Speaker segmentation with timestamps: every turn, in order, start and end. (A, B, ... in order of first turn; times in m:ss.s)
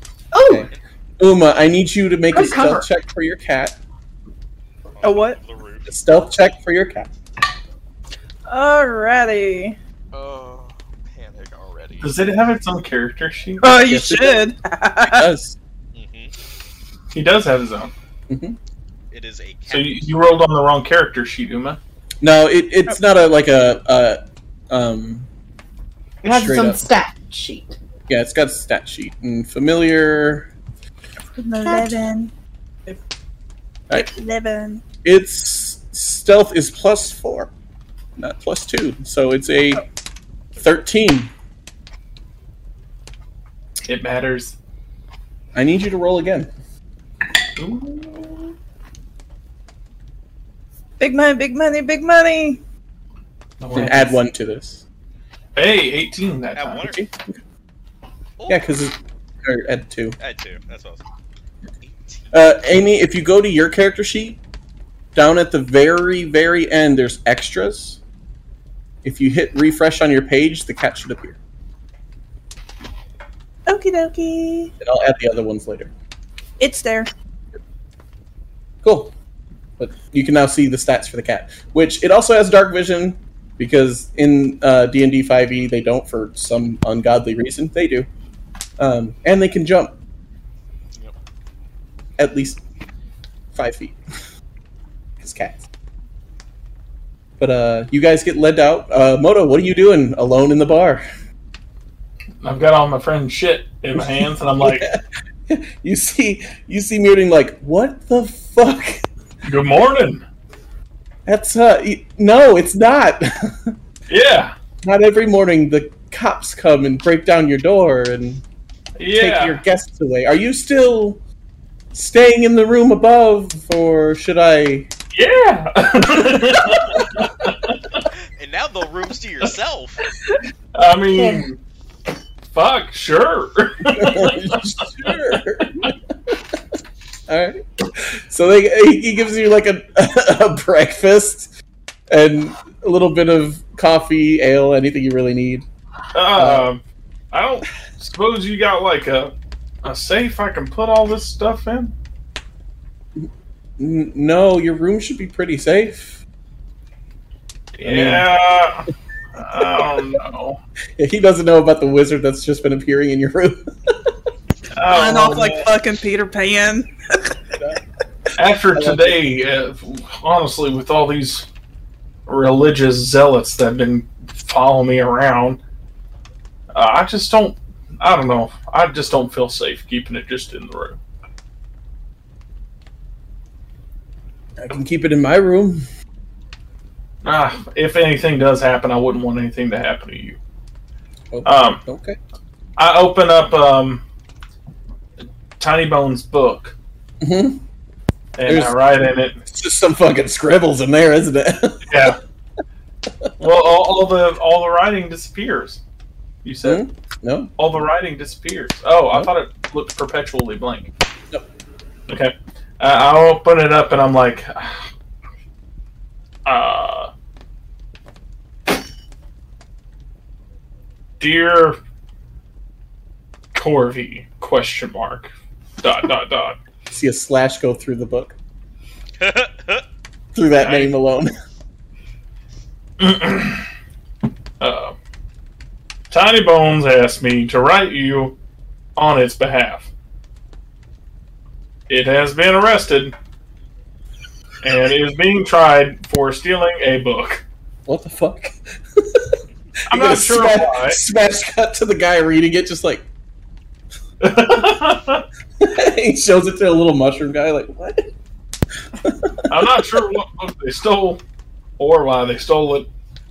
0:00.3-0:00.7 A
0:00.5-0:03.8 B
0:02.3-0:02.9 A
0:04.9-0:05.9 C
0:05.0-0:05.4 D
0:05.9-0:07.1 B
0:08.5-0:09.8 D
0:10.1-0:12.2 C
0:12.0-0:13.8 E
0:13.6-0:15.3 D
0:13.8-0:14.5 B
0:15.0-0:15.6 B
0:15.9-0:16.3 C
0:17.1-0:17.9 E
0:18.3-0:18.6 B
0:19.1-0:20.1 C
0:19.7-0:21.8 E
0:22.2-0:24.2 B
0:24.7-0:25.3 B
0:26.2-0:26.8 B
0:26.2-0:27.8 A
0:28.1-0:30.5 B
0:31.2-0:32.3 D
0:33.9-0:34.8 D
0:35.0-0:37.5 B
0:38.2-0:39.8 B
0:40.6-0:41.3 B
0:43.9-0:44.6 E
0:45.6-0:46.5 B
0:47.6-0:48.5 E
0:51.0-0:52.6 D
0:53.6-0:54.2 E
0:53.7-0:54.8 B
0:55.6-0:56.9 E
0:56.6-0:57.0 C
0:58.4-0:58.8 C
0:58.5-1:00.2 B
1:00.2-1:01.0 C
1:01.8-1:02.2 C
1:02.3-1:04.4 B
1:05.2-1:08.0 B
1:09.0-1:11.4 B
1:13.7-1:14.7 D
1:14.8-1:15.9 B
1:16.6-1:17.1 D
1:18.8-1:19.1 B
1:19.8-1:28.1 B
1:28.8-1:29.9 B
1:32.2-1:32.6 B
1:33.5-1:34.0 B
1:35.2-1:35.6 B
1:37.4-1:41.0 B
1:42.4-1:44.9 E
1:44.0-1:49.0 B
1:49.4-1:50.2 E
1:51.3-1:53.7 B
1:54.1-1:54.6 E
1:54.8-1:58.4 B
1:59.0-1:59.6 E
1:59.2-2:01.2 B
2:01.9-2:04.9 B
2:05.1-2:08.0 E
2:08.4-2:10.0 C
2:10.8-2:11.6 E
2:12.5-2:15.2 E
2:13.9-2:16.6 B
2:17.3-2:21.5 B
2:22.1-2:25.6 B
2:26.1-2:31.9 E
2:26.4-2:26.7 B
2:33.8-2:36.2 B
2:37.8-2:40.6 E
2:37.8-2:38.3 B
2:39.6-2:39.9 B
2:41.0-2:44.0 B
2:44.7-2:45.7 E
2:44.8-2:47.4 D
2:47.6-2:47.8 B
2:48.4-2:51.5 E
2:48.8-2:49.2 B
2:52.3-2:55.6 E
2:56.7-3:01.0 E
3:04.6-3:05.8 B
3:07.2-3:10.4 E
3:11.3-3:12.2 B
3:11.4-3:11.8 E
3:12.8-3:14.0 E
3:15.6-3:16.8 E
3:17.2-3:17.6 B
3:18.4-3:19.4 E
3:18.4-3:18.8 B
3:19.4-3:22.1 B
3:21.9-3:22.2 E
3:23.4-3:25.8 E
3:26.4-3:26.8 E
3:26.6-3:27.5 B
3:27.6-3:30.9 E
3:32.1-3:34.9 E
3:36.4-3:37.1 E
3:41.2-3:41.8 E
3:43.5-3:46.6 E
3:46.9-3:48.4 B
3:49.2-3:49.8 C
3:50.4-3:51.3 B
3:50.6-3:50.9 C
3:53.0-3:53.7 E
3:54.6-3:55.0 E
3:56.1-3:58.4 E
3:59.0-3:59.9 E
4:01.9-4:03.1 E
4:04.6-4:07.4 E
4:07.9-4:09.4 B
4:09.9-4:13.0 B
4:09.9-4:11.0 E
4:14.2-4:15.2 E
4:15.6-4:18.1 B
4:19.0-4:19.8 B
4:19.5-4:21.2 E
4:21.8-4:22.9 E